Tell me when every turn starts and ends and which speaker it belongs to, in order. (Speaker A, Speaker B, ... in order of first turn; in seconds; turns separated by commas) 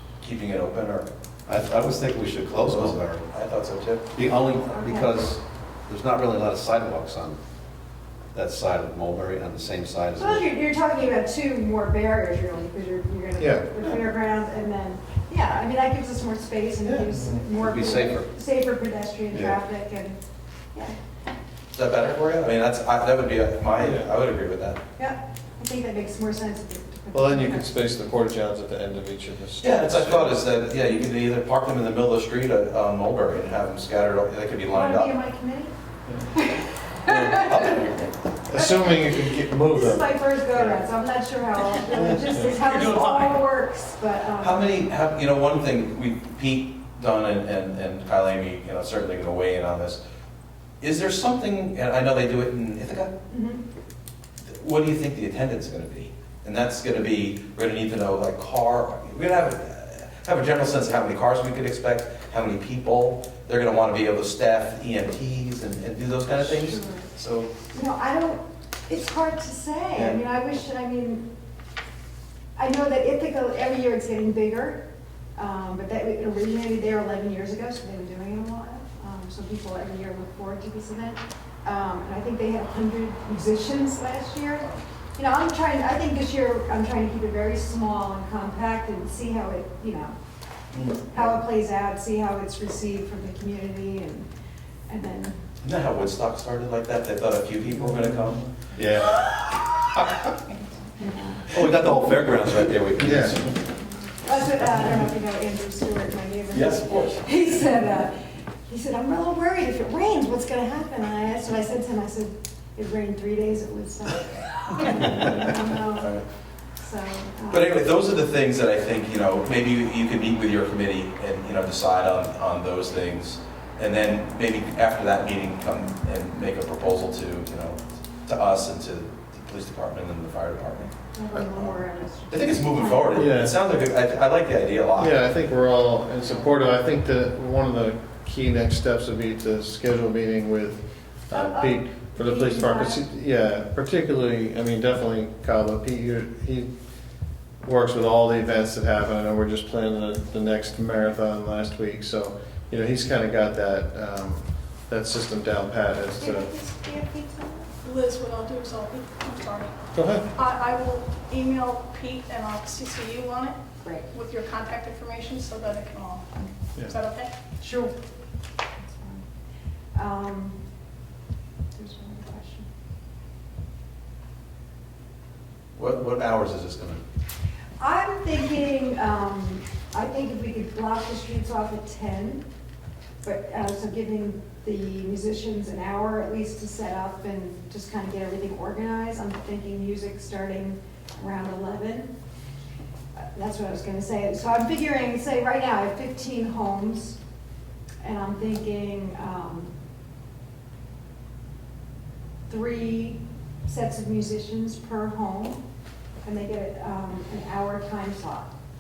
Speaker A: 0.2-1.1, Speaker B: 1.5-3.2, Speaker A: 2.6-4.1, Speaker B: 4.2-7.4, Speaker C: 4.6-5.2, Speaker B: 8.3-10.4, Speaker C: 10.2-20.2, Speaker D: 13.4-13.7, Speaker D: 16.8-17.5, Speaker B: 17.5-18.3, Speaker B: 19.3-19.6, Speaker A: 21.7-24.8, Speaker D: 23.8-24.1, Speaker C: 25.0-27.8, Speaker D: 27.1-30.4, Speaker A: 29.6-35.2, Speaker C: 34.7-35.7, Speaker C: 36.4-37.8, Speaker A: 37.3-38.1, Speaker D: 38.5-40.1, Speaker C: 38.5-44.9, Speaker E: 42.6-43.0, Speaker A: 44.4-50.0, Speaker A: 50.8-53.1, Speaker C: 53.3-53.6, Speaker A: 54.4-67.5, Speaker C: 66.4-67.1, Speaker C: 67.7-71.2, Speaker A: 70.0-70.2, Speaker C: 72.6-74.8, Speaker C: 75.4-90.1, Speaker A: 90.7-91.2, Speaker C: 91.1-94.3, Speaker C: 94.9-95.4, Speaker A: 95.6-98.5, Speaker B: 98.8-99.2, Speaker C: 100.8-102.0, Speaker B: 101.5-103.6, Speaker D: 103.0-103.4, Speaker C: 104.2-108.2, Speaker A: 106.5-107.3, Speaker C: 108.7-116.1, Speaker A: 115.0-116.2, Speaker C: 116.8-117.8, Speaker A: 117.5-130.9, Speaker C: 131.1-133.2, Speaker A: 132.3-135.3, Speaker D: 133.1-133.6, Speaker D: 135.0-146.7, Speaker C: 141.3-143.0, Speaker D: 147.6-156.5, Speaker C: 156.2-157.7, Speaker E: 157.8-159.7, Speaker D: 159.9-160.3, Speaker E: 160.3-163.6, Speaker C: 163.8-164.1, Speaker E: 164.1-167.3, Speaker C: 167.6-167.9, Speaker C: 168.8-169.2, Speaker C: 169.9-170.6, Speaker C: 171.8-172.7, Speaker A: 175.8-177.0, Speaker C: 177.8-182.5, Speaker C: 183.2-192.1, Speaker C: 193.3-197.2, Speaker C: 198.0-199.7, Speaker C: 202.5-205.6, Speaker C: 206.2-208.5